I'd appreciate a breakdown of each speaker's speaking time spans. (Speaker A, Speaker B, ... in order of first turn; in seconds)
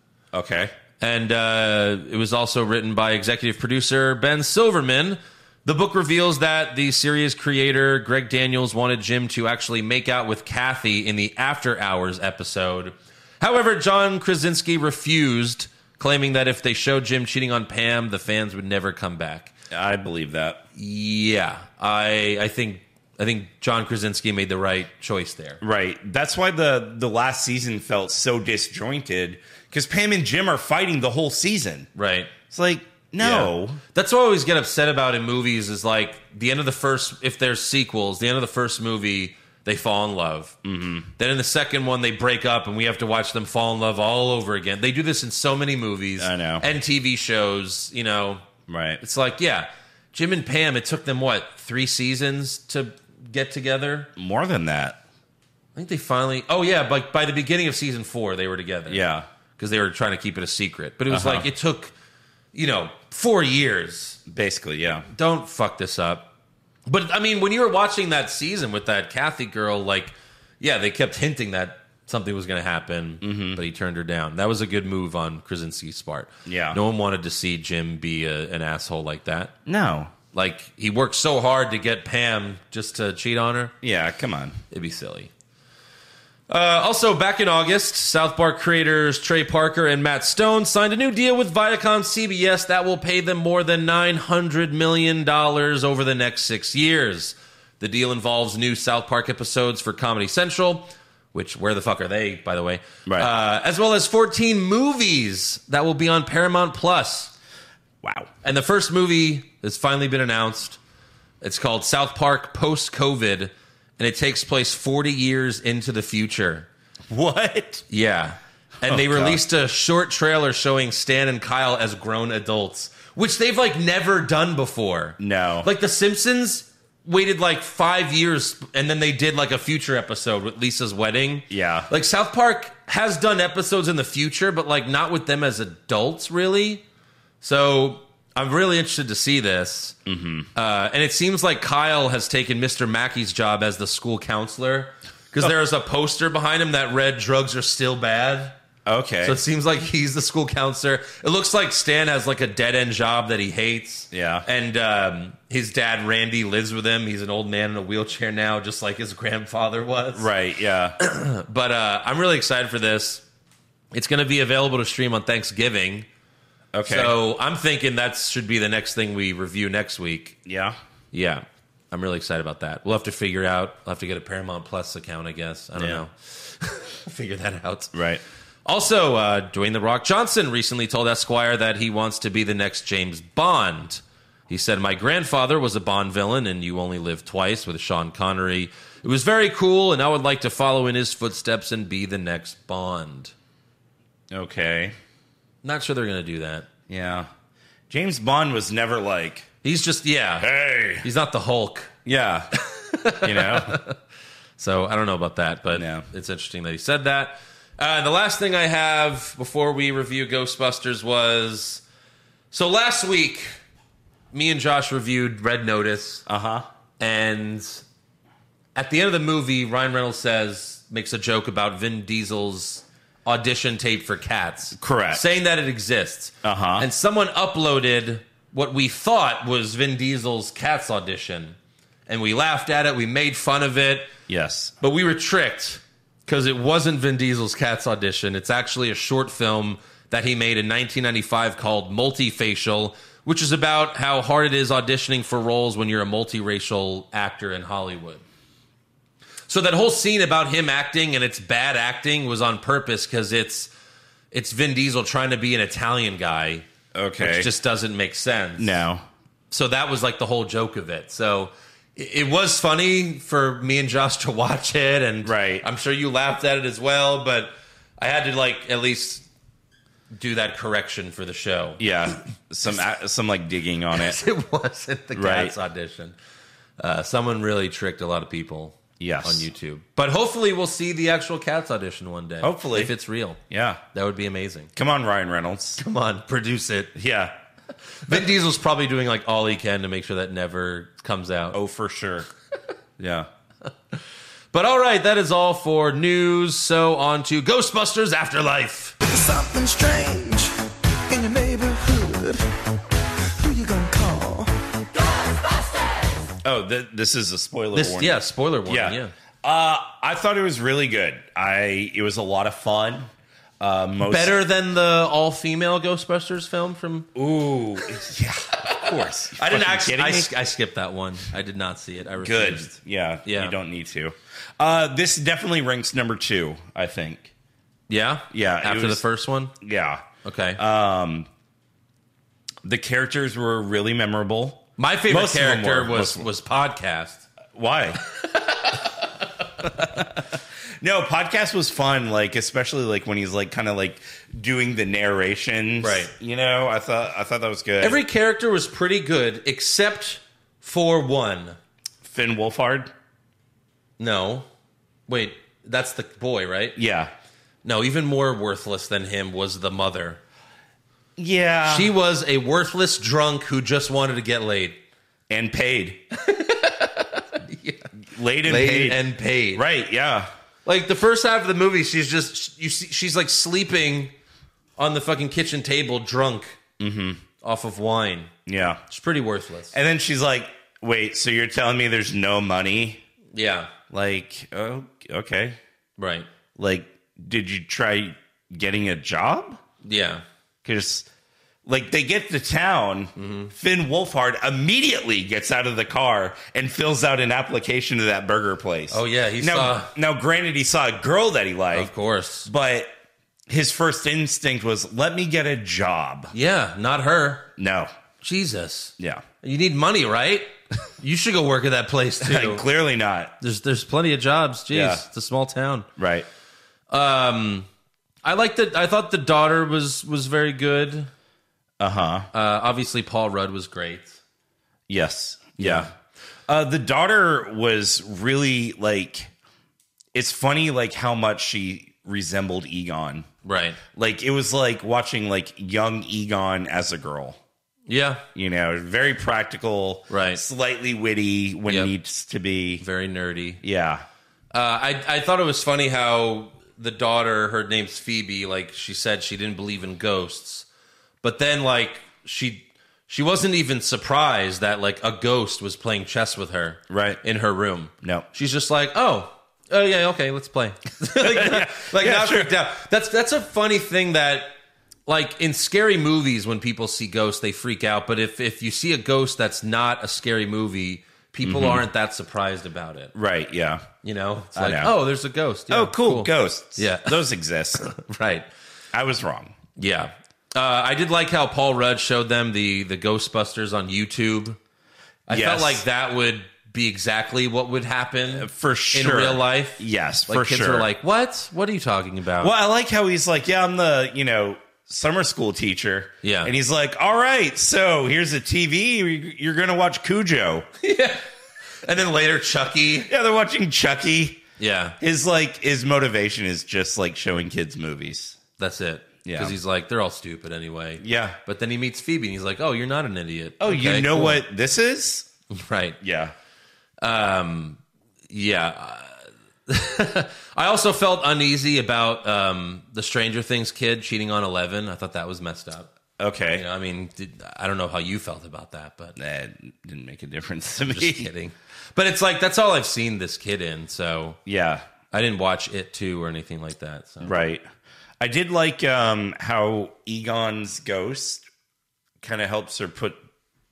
Speaker A: 0.3-0.7, 19.7-20.6, 25.6-31.9, 32.5-33.8, 40.6-41.1, 46.2-46.6, 48.7-49.0, 54.1-55.0, 58.9-59.3, 61.1-61.5, 64.2-65.1, 73.2-73.6, 76.5-76.8, 79.7-80.1, 83.8-84.6, 108.0-108.3, 117.1-117.8, 118.9-119.4, 125.2-125.7, 131.5-131.9, 140.1-140.5, 148.9-149.4, 154.1-154.4, 160.1-161.0, 166.7-167.2, 170.4-170.8, 175.8-176.0, 177.9-178.2, 194.3-194.9, 196.9-197.3, 197.9-199.5, 200.4-201.1, 202.1-202.5, 203.2-203.8, 205.7-206.1, 216.2-216.7, 224.8-225.3, 226.4-226.9, 234.3-234.7, 256.9-257.5, 258.6-259.1, 265.2-265.6, 271.8-274.2, 275.1-275.5, 279.0-279.5, 282.4-282.9, 283.5-283.8, 284.8-285.8, 286.9-287.4, 291.5-292.3, 293.0-293.3, 306.4-314.4, 317.1-320.3, 322.2-327.3, 328.3-329.0, 329.6-330.1, 330.6-331.3, 332.6-336.3, 337.6-338.0, 339.6-348.0, 352.0-352.9, 356.8-357.1, 361.2-361.9, 365.3-366.0, 368.1-369.0, 369.5-370.3, 376.8-377.2, 378.4-378.8, 379.7-383.0, 383.9-385.6, 386.6-389.6, 390.6-391.1, 391.6-401.9, 402.4-402.9, 403.5-406.3, 407.6-407.9, 409.0-409.2, 412.2-413.4, 414.7-415.0, 416.0-416.2, 421.8-422.3, 424.9-425.9, 426.5-429.3, 430.1-433.3, 433.9-437.4, 438.4-442.8, 443.6-444.1, 456.9-457.2, 458.0-458.3, 461.1-462.5, 471.4-471.9, 473.1-473.9, 474.6-474.9, 475.7-477.9, 478.9-479.6, 485.3-485.8, 488.3-490.9, 492.4-500.7, 503.1-504.4, 505.0-508.4, 509.2-509.6, 511.0-511.4, 513.6-515.3, 516.0-516.3, 526.2-526.6, 529.2-531.3, 534.5-534.9, 537.2-537.6, 538.2-541.5, 542.2-543.2
Speaker B: 1.0-19.5, 20.7-25.6, 31.9-32.3, 33.2-40.6, 41.2-48.4, 49.0-54.1, 55.7-59.0, 59.6-61.9, 62.5-64.2, 65.1-66.3, 66.9-79.5, 80.3-83.7, 84.7-85.3, 86.5-107.3, 108.4-110.8, 111.4-116.7, 117.9-136.8, 137.4-140.0, 140.6-148.6, 149.2-160.3, 161.0-163.2, 163.9-166.1, 166.9-170.4, 171.1-177.9, 178.6-193.3, 195.6-196.7, 199.6-201.9, 202.6-204.0, 204.6-211.8, 212.5-213.5, 214.3-216.2, 217.0-217.8, 218.8-231.6, 232.1-234.1, 234.8-248.2, 249.5-253.7, 254.3-256.6, 257.2-258.8, 259.5-269.2, 270.1-271.8, 273.9-276.1, 276.8-283.4, 283.9-284.7, 285.8-286.9, 288.1-291.6, 294.5-298.9, 307.7-309.1, 314.0-317.1, 318.6-322.7, 323.2-323.6, 327.9-329.6, 330.2-330.6, 334.8-337.2, 338.1-338.9, 345.8-346.1, 347.8-351.6, 354.0-354.5, 355.1-356.8, 357.6-360.2, 361.6-364.8, 366.1-369.6, 370.6-374.1, 374.8-376.6, 377.4-378.3, 378.9-379.8, 383.3-383.7, 386.0-386.3, 389.8-390.2, 393.1-393.5, 398.9-399.9, 401.7-402.5, 406.3-407.5, 408.2-412.6, 413.4-415.9, 416.9-417.7, 418.2-421.1, 422.3-424.2, 425.6-425.9, 433.4-433.8, 437.9-438.2, 440.1-440.4, 442.8-443.6, 444.5-450.6, 451.2-464.6, 465.1-473.1, 474.0-477.2, 477.8-478.5, 479.8-484.6, 485.3-492.5, 496.2-496.5, 500.8-501.2, 501.8-503.1, 504.6-505.0, 508.6-514.4, 515.5-516.0, 517.0-525.9, 526.5-529.2, 530.9-534.4, 535.1-537.4
Speaker C: 299.0-300.6, 301.1-302.5, 303.4-304.6